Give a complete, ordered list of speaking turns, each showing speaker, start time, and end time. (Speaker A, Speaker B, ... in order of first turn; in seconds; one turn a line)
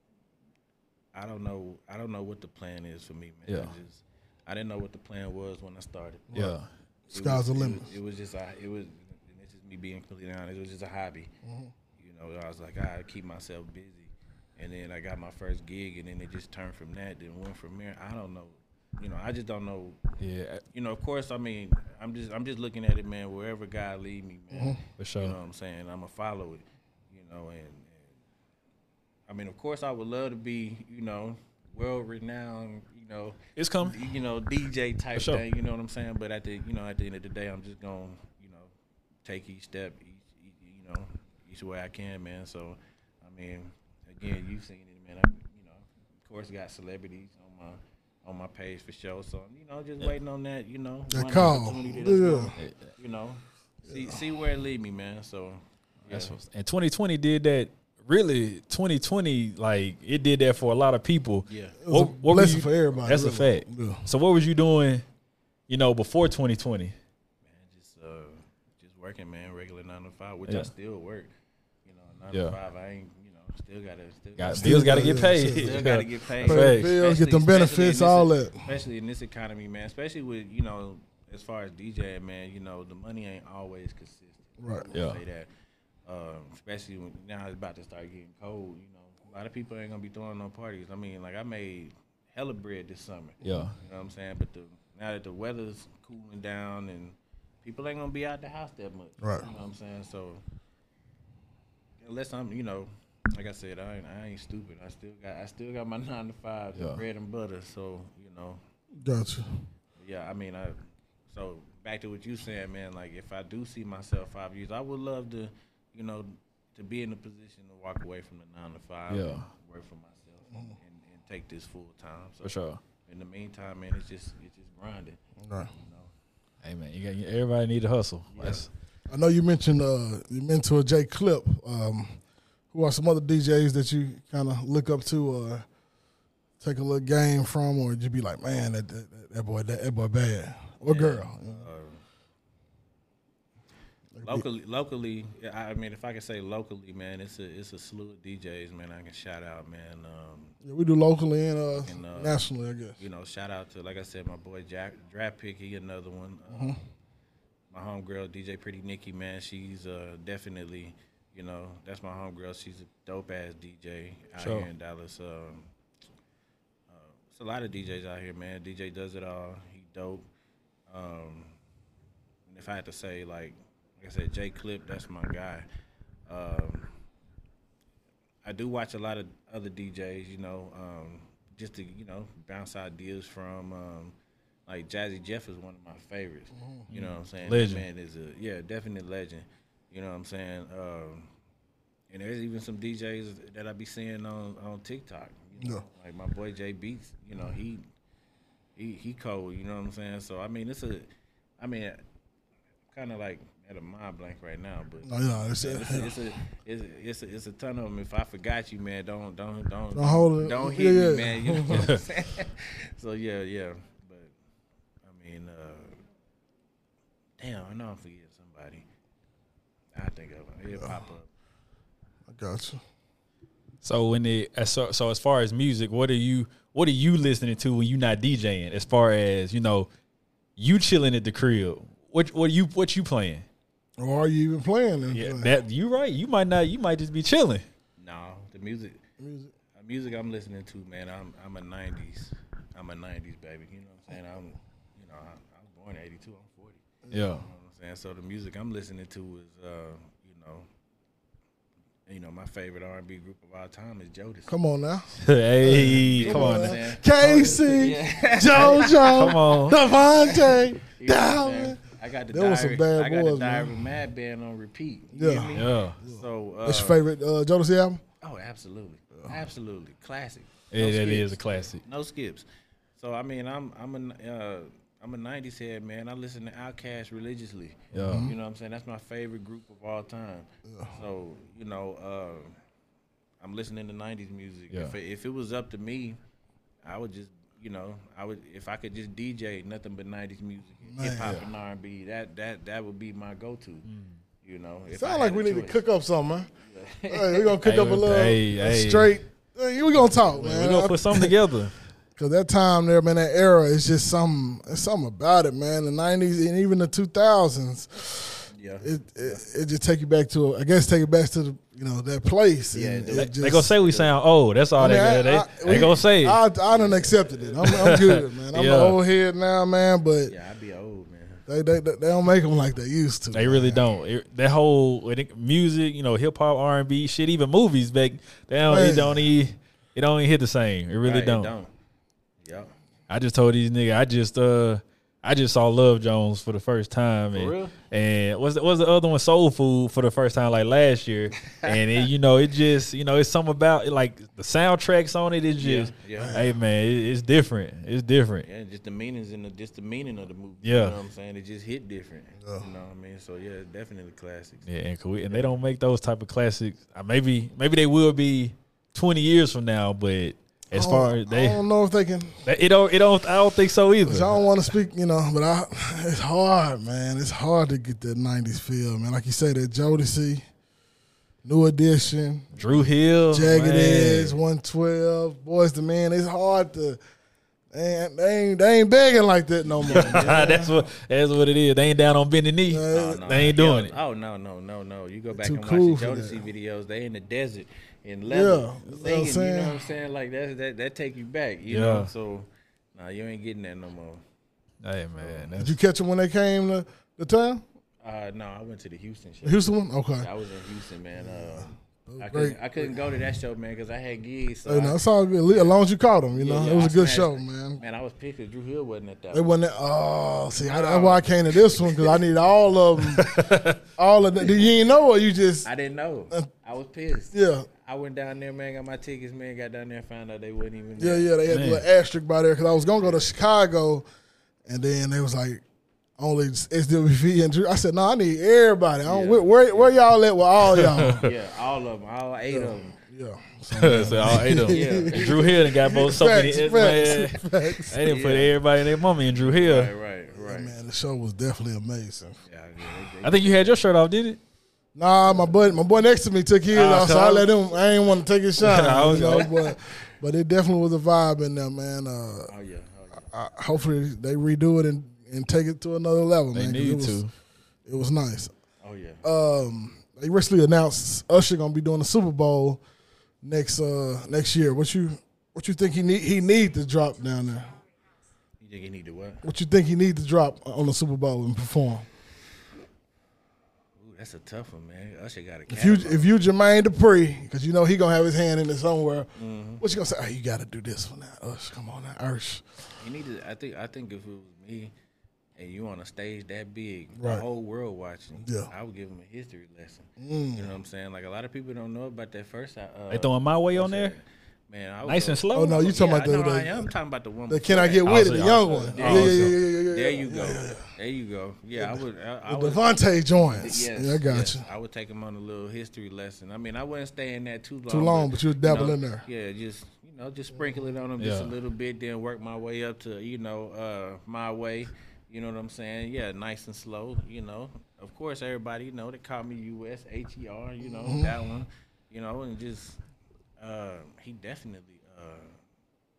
Speaker A: 1.1-6.3
Speaker B: 3.5-3.7
Speaker B: 6.3-6.7
Speaker C: 7.1-7.9
Speaker A: 7.1-11.3
Speaker C: 11.4-11.7
Speaker A: 12.0-20.0
Speaker B: 20.2-20.6
Speaker A: 20.7-28.1
Speaker C: 24.5-24.8
Speaker B: 25.0-25.4
Speaker A: 29.3-38.7
Speaker B: 33.6-34.0
Speaker B: 35.1-35.4
Speaker A: 39.2-56.4
Speaker C: 51.1-52.6
Speaker B: 52.6-52.9
Speaker C: 53.9-54.1
Speaker B: 56.1-65.0
Speaker A: 61.5-61.8
Speaker C: 61.8-64.1
Speaker B: 65.7-66.9
Speaker A: 67.4-71.3
Speaker A: 71.8-85.5
Speaker B: 74.4-76.9
Speaker C: 74.5-75.7
Speaker C: 76.4-78.7
Speaker C: 84.6-84.9
Speaker B: 84.9-85.2
Speaker A: 86.1-100.4
Speaker B: 93.4-93.7
Speaker C: 99.2-99.5
Speaker A: 102.0-108.6
Speaker B: 106.8-107.0
Speaker C: 109.0-109.6
Speaker A: 110.0-125.2
Speaker B: 119.1-119.5
Speaker B: 122.4-122.8
Speaker C: 125.4-125.7
Speaker A: 125.7-126.1
Speaker B: 126.6-128.7
Speaker A: 128.3-128.7
Speaker C: 129.1-132.2
Speaker C: 132.7-135.7
Speaker C: 136.6-141.7
Speaker A: 140.8-142.0
Speaker C: 144.2-144.4
Speaker A: 144.2-150.6
Speaker C: 150.6-152.9
Speaker A: 151.7-152.4
Speaker A: 153.0-156.8
Speaker C: 156.5-156.8
Speaker A: 157.7-165.7
Speaker B: 164.4-164.7
Speaker A: 166.9-170.3
Speaker A: 170.9-171.6
Speaker A: 172.5-175.7
Speaker A: 176.3-176.9
Speaker A: 178.4-184.1
Speaker A: 184.7-191.3
Speaker C: 186.6-186.9
Speaker B: 186.9-187.8
Speaker A: 192.1-197.8
Speaker A: 198.8-202.0
Speaker A: 202.9-214.3
Speaker C: 205.0-206.1
Speaker C: 209.9-211.9
Speaker B: 211.7-212.0
Speaker A: 215.0-216.0
Speaker A: 217.4-218.8
Speaker A: 219.9-221.3
Speaker C: 222.3-222.8
Speaker B: 223.8-229.9
Speaker B: 230.6-233.4
Speaker C: 234.0-235.5
Speaker B: 235.1-237.6
Speaker A: 238.0-239.0
Speaker C: 239.2-239.5
Speaker A: 239.8-246.8
Speaker B: 247.1-247.4
Speaker A: 247.3-250.7
Speaker A: 252.1-254.5
Speaker C: 254.5-255.1
Speaker B: 255.2-257.5
Speaker C: 255.6-261.8
Speaker A: 256.1-267.0
Speaker B: 259.1-259.8
Speaker C: 262.3-263.8
Speaker C: 265.1-268.0
Speaker B: 265.6-266.0
Speaker A: 268.2-272.4
Speaker B: 270.7-271.8
Speaker A: 273.0-282.6
Speaker B: 277.9-278.3
Speaker C: 278.0-278.4
Speaker C: 280.6-280.9
Speaker A: 283.4-286.2
Speaker A: 286.8-293.9
Speaker C: 290.9-291.4
Speaker B: 293.9-294.2
Speaker A: 294.4-295.8
Speaker C: 294.9-296.5
Speaker A: 296.6-297.6
Speaker C: 297.1-301.4
Speaker B: 297.6-299.1
Speaker B: 300.1-301.8
Speaker C: 302.1-313.7
Speaker A: 308.5-309.4
Speaker A: 312.7-314.1
Speaker B: 313.1-316.4
Speaker C: 314.8-320.3
Speaker A: 316.7-317.6
Speaker B: 317.6-318.9
Speaker A: 320.3-321.4
Speaker C: 321.5-323.8
Speaker B: 323.3-331.5
Speaker C: 328.7-329.3
Speaker A: 331.0-331.7
Speaker A: 332.4-332.7
Speaker B: 333.1-348.5
Speaker A: 337.3-337.8
Speaker A: 341.4-342.0
Speaker A: 345.6-346.4
Speaker C: 346.2-346.5
Speaker A: 348.4-354.7
Speaker B: 350.6-350.9
Speaker C: 352.4-352.6
Speaker B: 354.7-361.6
Speaker C: 360.7-362.4
Speaker B: 362.4-364.4
Speaker C: 364.1-370.4
Speaker C: 371.4-372.6
Speaker B: 372.6-374.4
Speaker C: 373.3-377.0
Speaker C: 377.7-380.7
Speaker A: 379.8-380.7
Speaker B: 379.9-383.9
Speaker C: 382.7-383.2
Speaker A: 382.9-394.2
Speaker C: 385.4-386.4
Speaker C: 388.3-389.9
Speaker B: 391.7-392.1
Speaker B: 394.8-395.8
Speaker A: 395.2-395.5
Speaker C: 395.6-397.6
Speaker A: 398.0-405.8
Speaker C: 399.4-400.3
Speaker C: 401.2-402.9
Speaker C: 404.6-407.8
Speaker A: 406.3-409.5
Speaker C: 409.3-415.7
Speaker A: 410.6-412.2
Speaker B: 413.1-413.8
Speaker A: 415.6-421.4
Speaker C: 417.3-417.7
Speaker C: 421.0-424.1
Speaker B: 421.5-421.8
Speaker C: 424.6-425.6
Speaker C: 426.2-431.3
Speaker A: 429.1-430.0
Speaker B: 430.7-431.2
Speaker A: 431.2-433.0
Speaker C: 432.5-438.0
Speaker B: 433.7-439.9
Speaker A: 434.7-435.6
Speaker A: 438.0-438.5
Speaker A: 439.3-440.8
Speaker C: 440.4-442.4
Speaker A: 442.4-443.8
Speaker B: 443.2-444.4
Speaker C: 444.9-452.5
Speaker B: 446.7-447.5
Speaker B: 448.6-449.5
Speaker A: 452.5-453.3
Speaker C: 453.3-457.2
Speaker B: 456.5-457.3
Speaker C: 457.9-458.5
Speaker A: 458.8-459.2
Speaker C: 459.2-462.8
Speaker C: 463.4-467.8
Speaker A: 468.6-469.4
Speaker C: 469.4-472.1
Speaker A: 474.0-476.3
Speaker C: 475.7-479.3
Speaker A: 479.4-479.8
Speaker C: 479.8-482.8
Speaker A: 483.0-484.9
Speaker A: 485.6-502.9
Speaker C: 487.2-487.4
Speaker C: 488.4-488.7
Speaker C: 490.2-490.7
Speaker B: 493.1-494.1
Speaker B: 495.1-495.8
Speaker C: 495.5-496.9
Speaker C: 497.5-500.9
Speaker B: 498.1-499.6
Speaker C: 501.8-504.6
Speaker A: 503.4-523.0
Speaker C: 507.9-509.2
Speaker B: 511.2-511.5
Speaker C: 520.9-521.3
Speaker A: 523.6-525.6